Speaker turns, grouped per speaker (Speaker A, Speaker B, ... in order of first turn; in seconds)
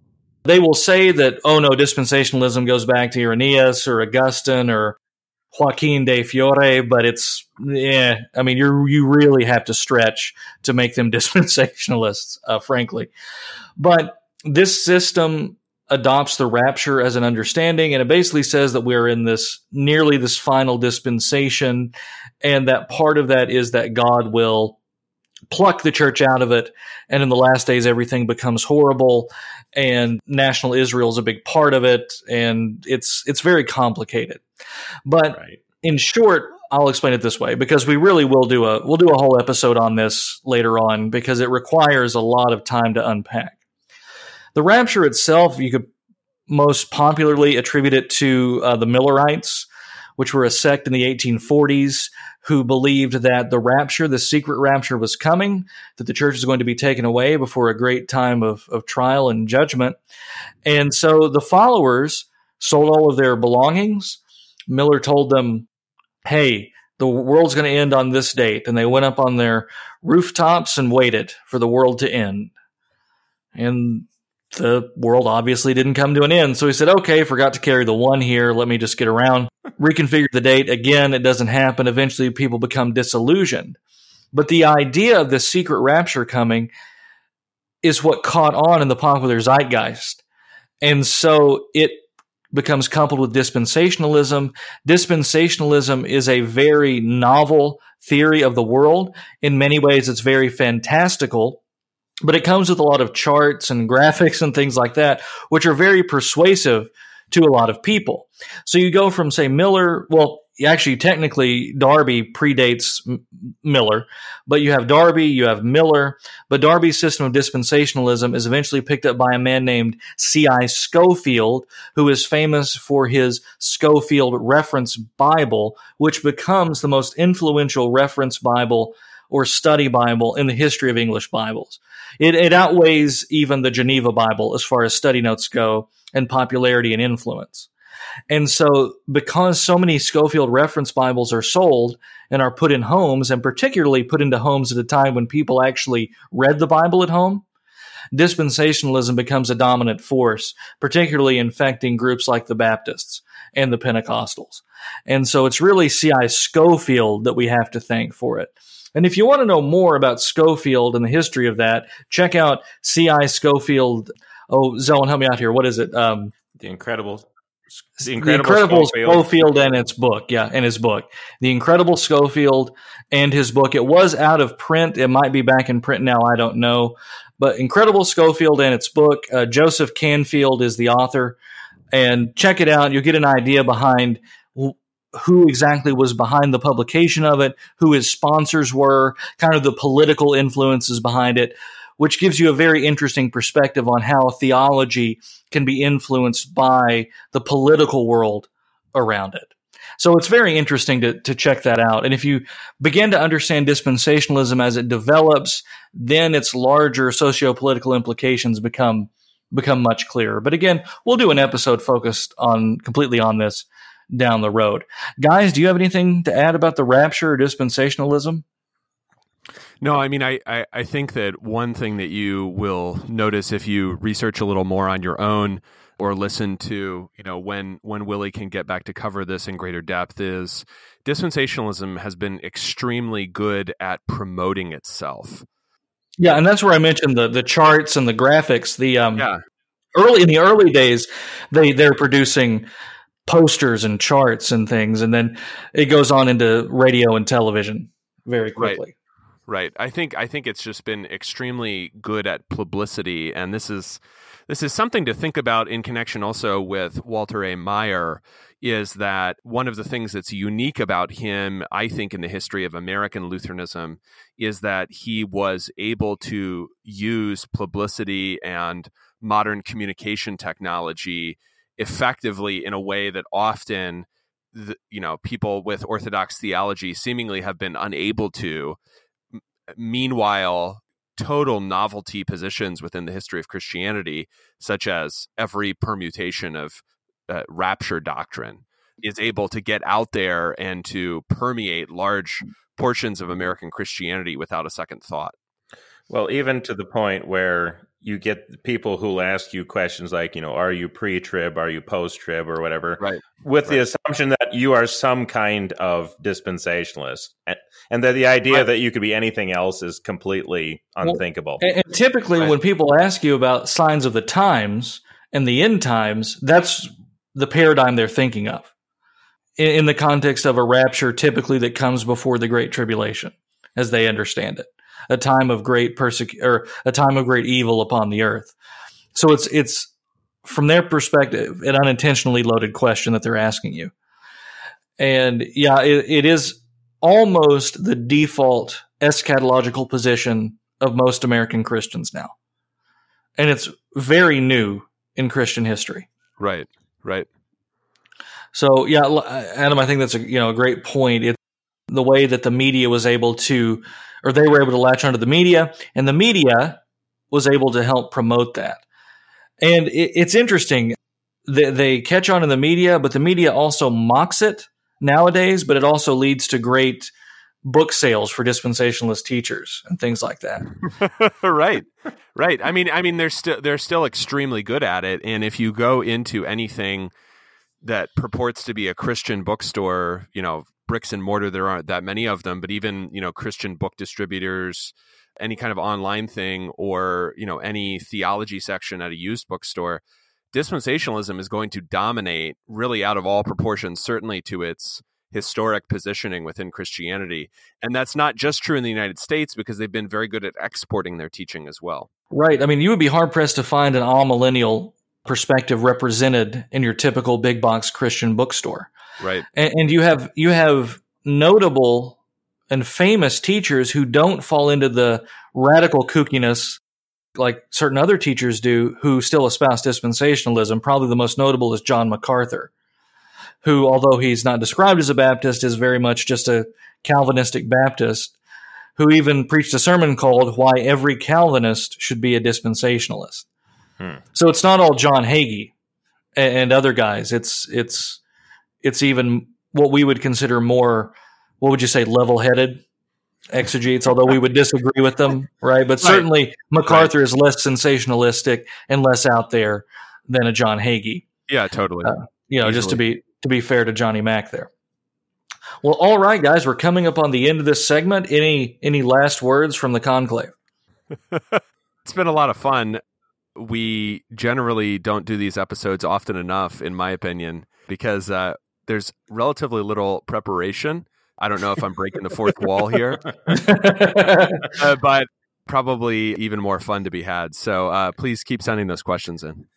Speaker A: 0.4-5.0, 5.5-13.1, 13.8-24.8, 25.5-34.4, 35.0-43.5, 44.5-45.9, 46.5-60.0, 60.6-65.7, 66.2-72.5, 73.5-83.8, 84.3-86.7, 87.8-90.2, 90.8-101.6, 102.2-137.7, 138.3-147.4, 148.1-166.3, 168.2-181.4, 181.9-218.4, 236.2-239.2, 239.9-242.7, 243.3-248.9, 311.0-318.7, 319.6-328.5, 329.1-329.9, 330.4-333.9, 335.0-342.3, 343.4-346.1, 348.5-351.4, 351.9-356.8, 357.3-358.8, 359.6-360.9, 361.5-367.1, 367.6-370.7, 402.3-408.9, 409.5-412.2, 412.7-416.8, 417.4-422.7, 423.6-428.3, 429.0-433.4, 434.3-435.7, 436.4-438.2, 438.8-442.8, 443.5-451.3, 452.0-454.7, 455.8-460.5, 473.5-474.7
Speaker B: 35.3-35.6, 166.6-167.3, 167.9-169.3, 296.1-311.6
Speaker C: 219.8-235.4, 249.5-278.8, 279.3-295.3, 303.0-303.8, 346.4-347.3, 370.9-377.1, 377.8-390.0, 390.5-402.1, 409.2-409.4, 446.0-446.3, 446.9-447.1, 451.5-453.0, 461.3-463.0, 463.6-473.3, 474.7-479.7